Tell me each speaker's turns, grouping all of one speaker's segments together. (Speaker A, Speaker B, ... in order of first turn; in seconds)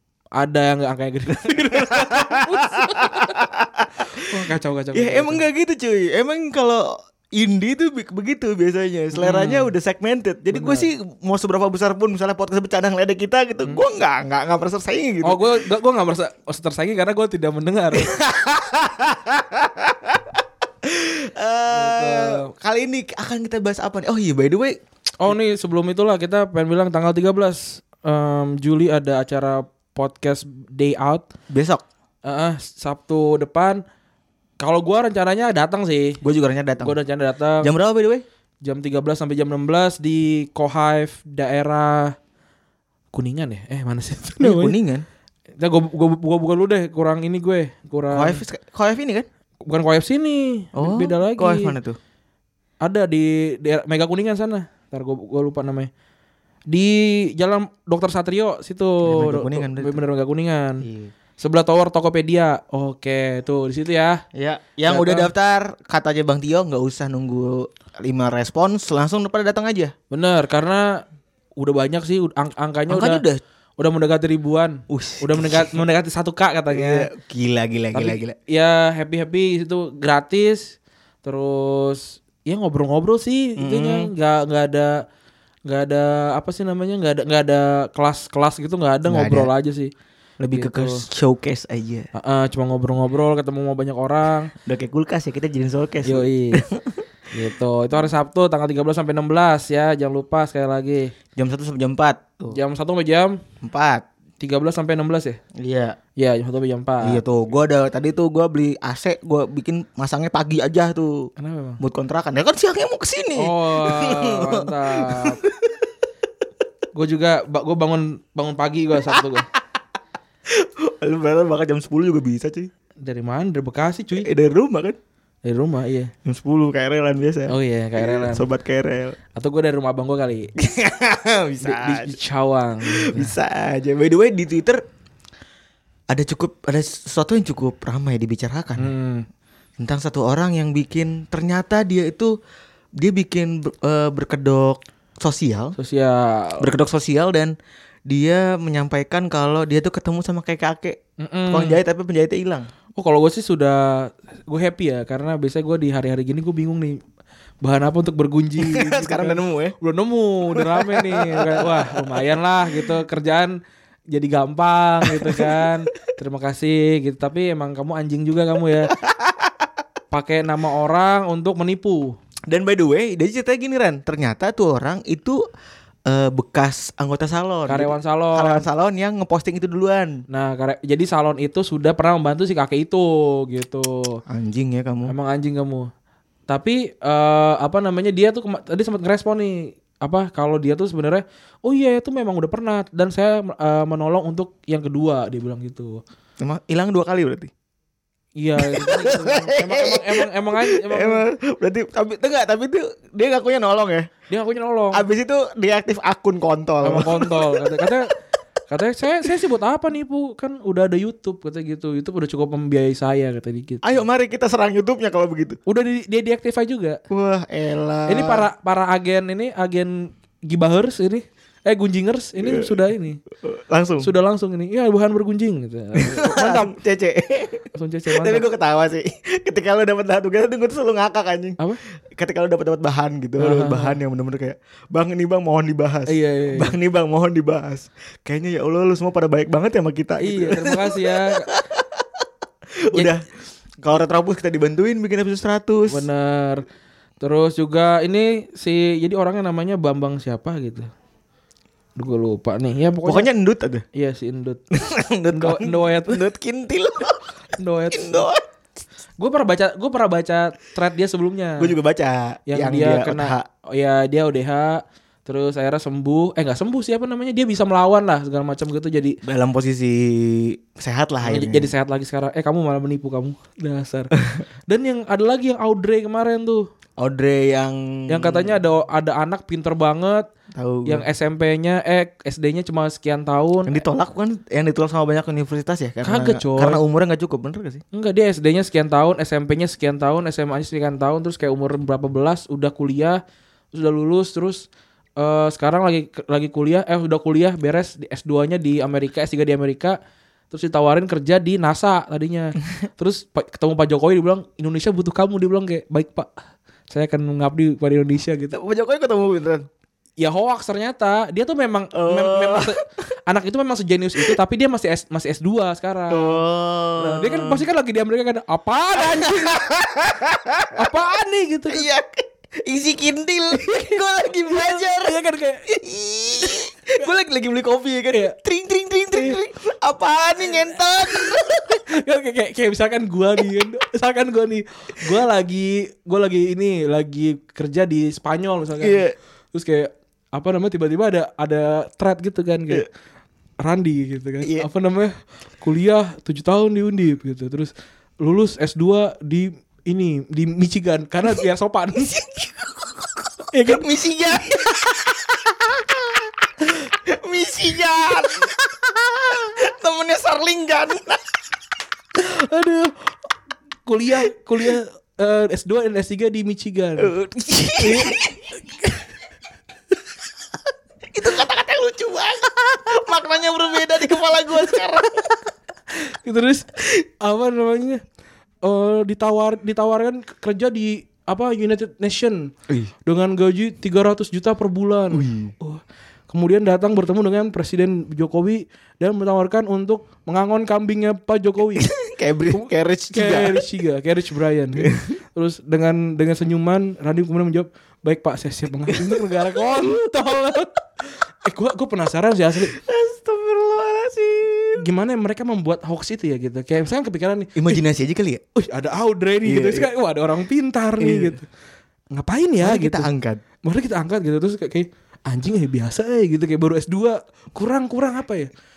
Speaker A: 0.3-3.4, 4.1-5.4, 9.2-9.7, 10.5-10.9, 15.2-18.1, 21.7-22.5, 25.2-31.3, 32.2-33.8, 34.6-36.2, 36.8-37.7, 38.6-42.1, 43.1-44.8, 45.6-48.4, 49.6-51.8, 52.8-55.9, 56.7-60.9, 61.4-64.2, 64.9-65.3, 70.1-71.0, 71.6-73.2, 73.8-77.1, 77.9-85.0, 85.7-89.9, 90.5-91.1, 92.1-94.5, 96.0-96.6, 97.3-101.1, 102.5-103.4, 104.4-105.4, 106.2-107.2, 111.4-111.8, 113.4-115.4, 116.9-119.5, 123.0-124.3, 125.4-126.1, 127.5-128.5, 129.3-130.5, 131.6-133.3, 138.8-139.3, 145.8-146.7, 151.2-151.8, 153.0-157.0, 157.6-163.6, 164.1-168.9, 170.1-172.2, 177.7-178.7, 180.3-184.2, 185.1-185.9, 186.5-196.0, 198.4-201.2, 204.3-205.1, 206.8-208.2, 208.7-214.0, 215.7-217.0, 218.1-223.2, 224.0-226.8, 227.7-228.4, 233.4-234.0, 236.1-236.8, 240.2-241.5, 245.9-246.7, 247.2-250.9, 252.0-253.3, 253.9-254.6, 255.3-256.2, 257.6-258.3, 259.2-261.7, 262.5-269.2, 271.2-274.1, 274.7-276.7, 278.1-280.3, 280.9-283.8, 286.0-286.8, 287.9-293.2, 293.7-294.7, 295.2-300.0, 300.5-306.3, 306.9-308.6, 310.2-316.4, 317.0-319.6, 320.7-321.9, 323.5-325.6, 329.1-329.4, 331.1-339.0, 339.5-342.9, 343.6-352.1, 353.5-353.9, 362.2-363.1, 363.9-367.1, 367.8-368.2, 376.0-378.0, 378.6-382.5, 383.1-391.9, 393.1-402.8, 404.8-407.8, 408.6-411.5, 412.1-413.1, 413.6-418.5
Speaker B: 1.4-4.2, 5.0-15.4, 18.0-25.3, 31.5-31.8, 36.2-37.0, 37.6-38.2, 44.4-45.0, 48.1-49.3, 50.8-52.0, 59.1-60.0, 60.8-61.1, 64.3-69.9, 72.9-73.4, 74.9-75.8, 76.7-78.4, 83.6-84.1, 89.1-89.5, 90.4-92.1, 94.7-97.0, 101.4-102.6, 103.6-104.0, 105.6-106.0, 107.0-115.8, 119.1-119.6, 120.5-122.7, 124.1-125.0, 126.2-129.2, 130.6-132.2, 132.8-134.8, 136.1-138.9, 139.8-142.3, 143.0-145.8, 146.6-147.6, 148.1-152.7, 158.6-159.8, 160.5-162.9, 165.0-165.7, 168.9-169.7, 172.5-175.4, 176.1-180.2, 184.3-185.1, 196.4-197.5, 198.6-204.1, 204.9-208.0, 213.8-215.6, 217.1-218.5, 222.4-222.8, 223.4-224.1, 226.0-231.6, 232.1-242.2, 242.9-243.2, 243.8-246.1, 253.1-253.8, 254.7-257.2, 257.9-258.4, 261.6-263.5, 269.2-271.7, 277.0-278.6, 280.5-281.1, 283.7-287.8, 308.5-309.7, 311.9-312.8, 316.1-317.6, 319.0-320.9, 321.7-331.8, 338.8-339.1, 352.0-361.2, 367.0-368.9, 371.1-375.4, 385.1-385.5, 391.8-393.6, 394.8-395.2, 398.9-399.8, 402.7-404.8, 407.6-408.4, 409.4-409.9, 411.0-411.4, 412.6-413.4